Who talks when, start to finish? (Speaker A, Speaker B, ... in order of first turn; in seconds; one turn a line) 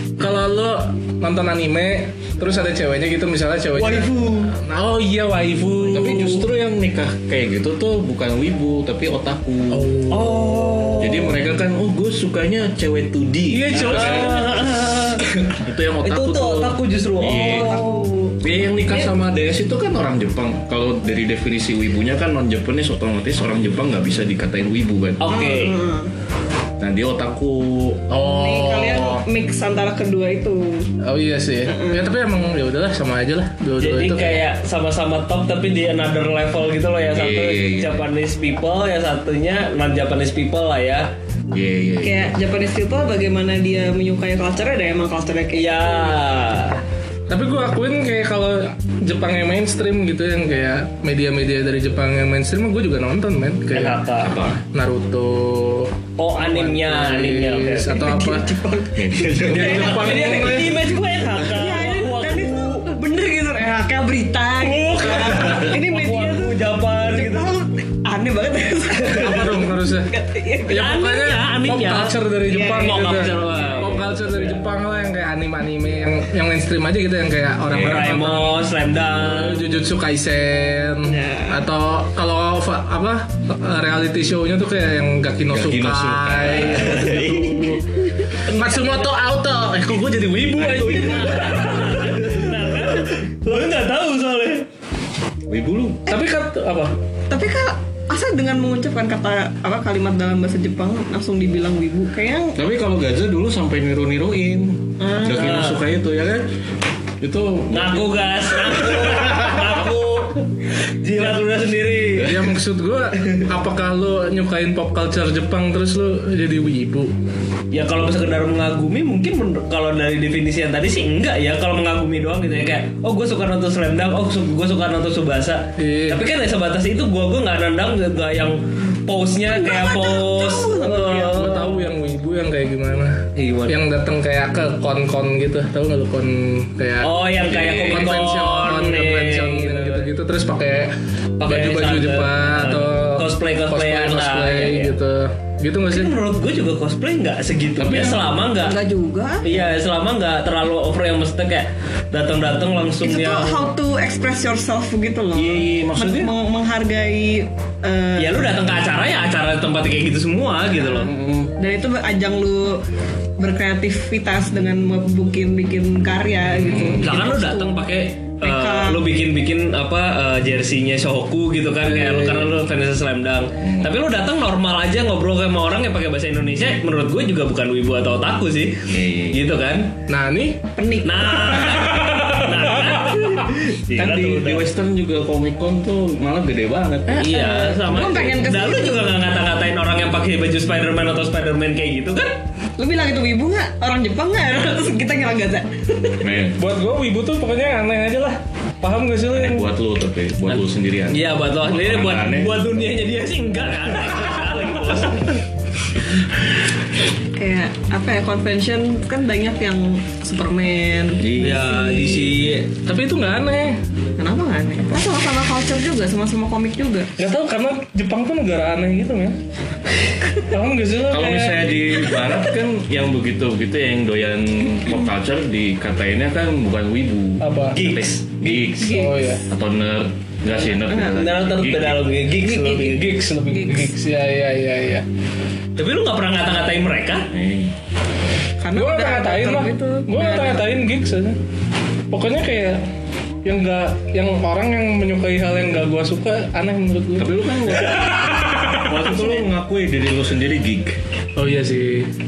Speaker A: 0.2-6.5
Speaker B: 3.7-4.5
Speaker C: 5.9-9.9
Speaker A: 9.7-10.7
Speaker B: 10.1-11.4
Speaker C: 11.0-14.4
Speaker A: 13.5-14.6
Speaker B: 13.7-17.9
Speaker C: 15.6-17.7
Speaker D: 17.4-18.4
Speaker C: 18.4-25.3
Speaker B: 25.2-25.8
Speaker D: 25.3-26.1
Speaker C: 26.8-28.1
Speaker A: 28.1-29.2
Speaker D: 28.2-30.9
Speaker A: 31.0-34.5
Speaker D: 31.7-32.0
Speaker B: 33.8-41.1
Speaker C: 37.1-38.0
Speaker C: 41.5-42.4
Speaker D: 42.0-46.2
Speaker B: 45.5-46.8
Speaker A: 47.3-54.0
Speaker B: 53.7-54.4
Speaker C: 54.2-54.6
Speaker A: 54.7-58.5
Speaker B: 56.2-58.2
Speaker D: 57.9-60.8
Speaker C: 59.0-60.1
Speaker A: 59.4-60.8
Speaker B: 59.5-62.8
Speaker D: 61.5-71.0
Speaker A: 64.7-65.6
Speaker B: 64.8-67.5
Speaker B: 69.0-69.4
Speaker A: 69.1-70.1
Speaker A: 70.7-87.8
Speaker B: 70.7-72.2
Speaker D: 72.5-73.3
Speaker B: 72.8-74.6
Speaker C: 77.7-78.1
Speaker B: 77.7-79.8
Speaker D: 81.0-81.6
Speaker C: 85.5-87.7
Speaker B: 86.7-87.8
Speaker D: 88.0-89.0
Speaker A: 88.4-92.5
Speaker B: 90.6-94.7
Speaker C: 95.5-96.0
Speaker A: 96.1-96.9
Speaker D: 97.3-102.6
Speaker C: 102.6-106.5
Speaker D: 105.0-105.6
Speaker B: 105.3-105.8
Speaker C: 107.2-109.5
Speaker B: 107.7-110.5
Speaker B: 111.0-112.5
Speaker A: 112.2-117.1
Speaker B: 117.7-131.8
Speaker A: 125.8-126.2
Speaker D: 129.5-131.5
Speaker A: 131.0-146.1
Speaker B: 133.4-133.8
Speaker B: 137.0-140.1
Speaker C: 137.5-138.2
Speaker B: 141.4-144.9
Speaker B: 145.9-148.8
Speaker C: 147.8-148.2
Speaker D: 148.6-149.5
Speaker B: 149.4-153.7
Speaker D: 153.0-158.5
Speaker C: 155.4-156.3
Speaker B: 158.2-161.1
Speaker C: 160.9-161.5
Speaker D: 161.6-162.8
Speaker D: 163.4-167.9
Speaker C: 166.6-167.1
Speaker B: 167.0-179.9
Speaker D: 168.4-169.1
Speaker C: 171.8-172.5
Speaker C: 173.6-173.9
Speaker C: 178.9-179.4
Speaker A: 180.1-180.6
Speaker D: 180.8-181.7
Speaker B: 181.0-184.6
Speaker A: 181.6-183.2
Speaker C: 183.9-187.4
Speaker D: 187.2-189.2
Speaker B: 187.2-192.4
Speaker D: 192.8-196.3
Speaker C: 196.2-196.6
Speaker A: 196.6-199.7
Speaker C: 199.3-202.6
Speaker B: 201.1-205.4
Speaker D: 207.4-212.3
Speaker C: 211.2-211.8
Speaker B: 211.4-212.7
Speaker A: 212.8-213.8
Speaker D: 214.2-217.1
Speaker A: 217.2-219.4
Speaker A: 220.4-221.7
Speaker C: 221.1-232.1
Speaker A: 227.4-227.8
Speaker B: 227.7-228.6
Speaker D: 228.8-229.3
Speaker A: 228.9-229.4
Speaker D: 230.9-231.2
Speaker B: 231.0-233.3
Speaker D: 232.4-233.9
Speaker A: 232.6-235.1
Speaker B: 235.8-237.3
Speaker C: 237.3-237.7
Speaker D: 238.6-240.7
Speaker A: 238.7-241.4
Speaker A: 242.1-242.8
Speaker A: 243.4-248.9
Speaker C: 247.2-251.0
Speaker A: 251.4-252.1